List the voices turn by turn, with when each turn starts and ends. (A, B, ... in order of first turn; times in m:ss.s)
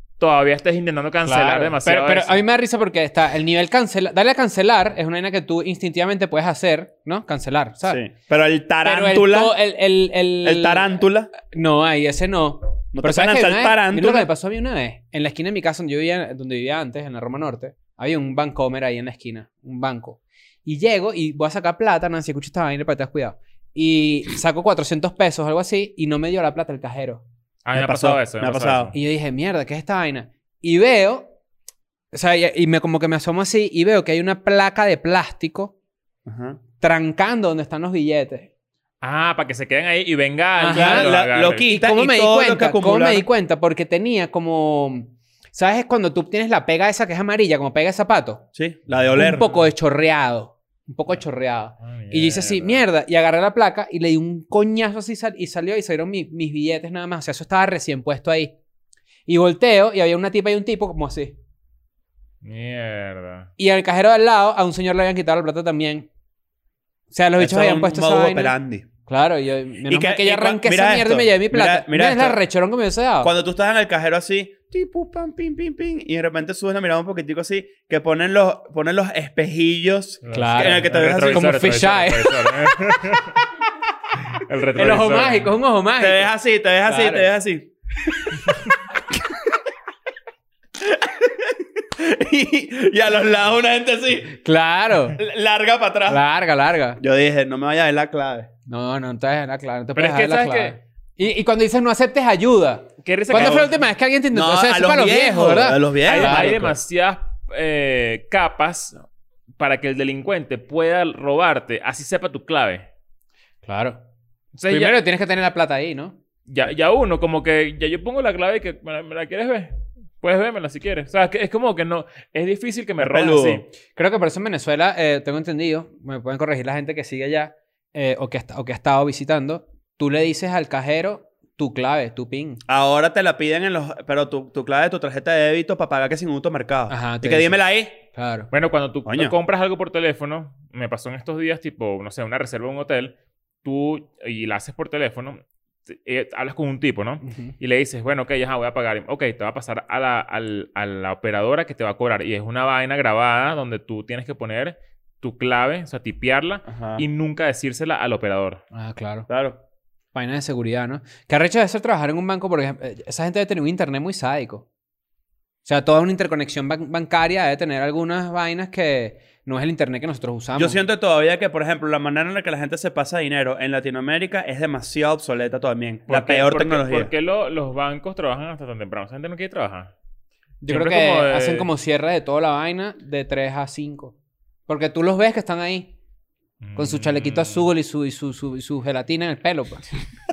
0:00.2-0:02.4 A
0:01.2-0:08.0 B
0:07.8-0:09.6 C
0:08.8-0:27.2 B
0:10.4-0:11.3 C
0:12.9-0:14.3 C
0:27.6-0:28.9 A
0:27.7-0:28.9 C
0:28.9-0:31.3 B
0:32.1-0:35.7 B
0:36.3-0:36.6 C
0:36.8-0:38.5 B
0:39.0-0:41.7 A
0:40.6-0:41.1 B
0:40.7-0:43.3 C
0:41.7-0:48.4 B
0:48.6-0:49.5 C
0:49.2-0:58.5 B
0:51.8-0:52.8 A
0:59.3-1:01.4 B
1:02.4-1:03.5 A
1:03.6-1:06.1 B
1:07.1-1:08.6 B
1:07.4-1:08.9 C
1:09.1-1:13.3 B
1:09.9-1:12.4 C
1:13.2-1:21.6 C
1:20.2-1:23.4 A
1:20.3-1:22.6 B
1:24.3-1:25.5 A
1:24.8-1:26.3 B
1:26.0-1:28.6 C
1:26.8-1:27.3 B
1:30.8-1:34.4 C
1:34.4-1:35.2 B
1:35.1-1:36.2 C
1:36.1-1:37.0 B
1:37.0-1:38.5 C
1:38.7-1:46.7 B
1:40.0-1:40.8 A
1:43.0-1:43.8 A
1:43.3-1:43.7 C
1:44.3-1:46.7 C
1:46.0-1:49.0 A
1:49.6-1:52.9 A
1:53.6-1:54.0 B
1:54.5-1:55.0 A
1:54.7-1:56.2 B
1:56.5-2:03.7 A
2:03.0-2:03.6 C
2:04.0-2:12.6 B
2:12.7-2:18.0 C
2:16.9-2:17.6 B
2:18.1-2:18.5 B
2:18.5-2:38.6 A
2:19.1-2:19.4 C
2:27.2-2:27.5 B
2:36.7-2:37.0 C
2:38.7-2:39.3 B
2:39.3-2:39.6 C
2:40.1-2:44.6 B
2:45.6-2:50.8 B
2:50.6-2:57.1 C
2:56.1-2:59.9 A
3:00.6-3:04.1 B
3:00.7-3:01.7 A
3:04.7-3:05.9 B
3:06.6-3:07.6 A
3:06.8-3:09.8 B